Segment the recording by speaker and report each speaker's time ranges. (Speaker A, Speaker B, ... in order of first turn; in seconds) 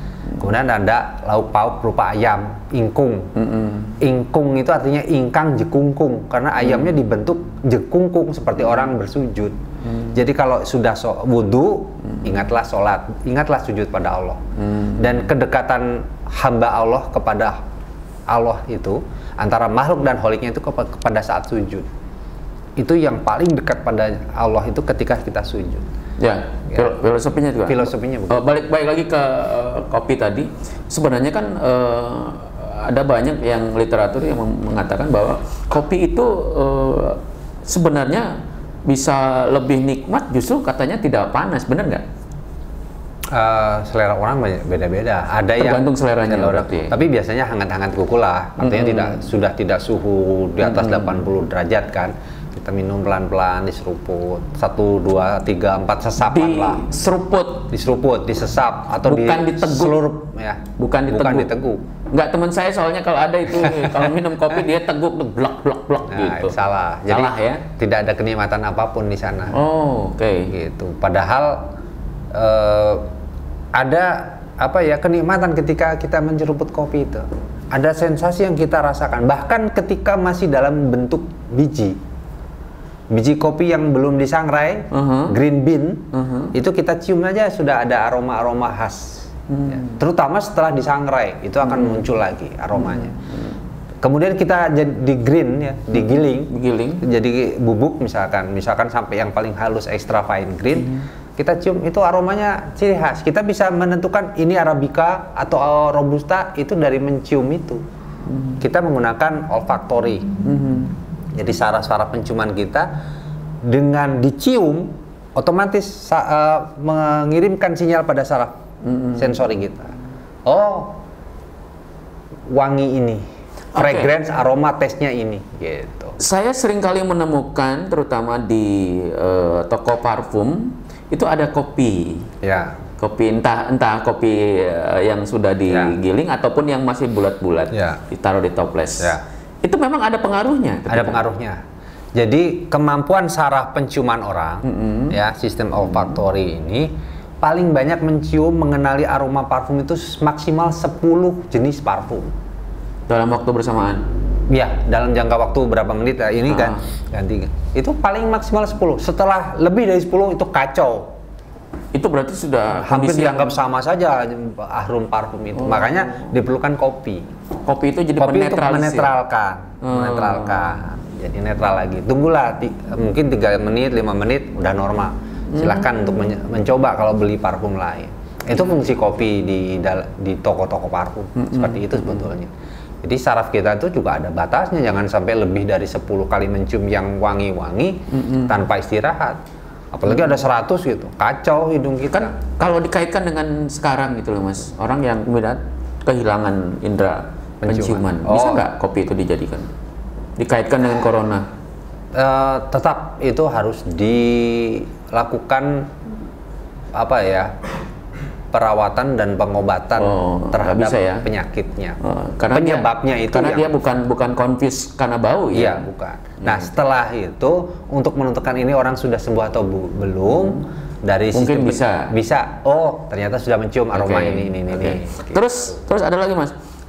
Speaker A: 0.4-3.3, 4.0-9.6, 10.1-14.4, 15.0-17.6, 18.3-21.9, 22.8-25.9, 26.7-27.0, 27.7-28.5, 43.3-56.9, 57.7-61.8, 63.6-64.0, 66.1-69.6, 70.5-71.7, 72.3-73.1, 73.8-82.0, 83.1-93.2, 94.0-107.8, 108.6-110.3, 111.3-112.9, 113.6-118.5, 119.2-119.9, 120.5-121.0, 122.5-126.2, 132.4-132.8, 135.7-135.9, 137.7-138.0, 140.9-141.6, 142.2-146.9, 147.4-152.3, 154.5-161.1, 162.8-167.3, 168.2-182.5, 183.0-189.4, 189.9-192.4, 197.6-198.7, 202.2-205.9, 206.9-207.5, 208.5-212.0, 212.5-213.7, 215.5-225.8
Speaker B: 3.4-4.0, 14.6-15.3, 26.2-42.0, 45.6-46.9, 48.6-49.2, 50.6-51.3, 56.2-57.7, 59.0-60.1, 60.8-61.5, 62.1-66.6, 67.1-67.7, 69.5-70.5, 84.9-85.4, 86.1-86.5, 89.5-90.0, 91.6-92.1, 92.8-93.2, 96.0-97.0, 108.3-108.6, 110.4-110.9, 118.8-119.4, 123.7-124.1, 126.2-132.3, 133.0-141.2, 144.7-145.2, 153.1-154.1, 156.5-156.8, 161.9-163.6, 165.6-166.3, 167.7-169.2, 169.8-170.8, 175.6-176.0, 181.4-182.3, 188.1-188.5, 192.1-199.7, 200.4-201.5, 210.0-211.3, 212.0-215.8, 216.4-216.7, 221.3-222.1, 223.9-226.6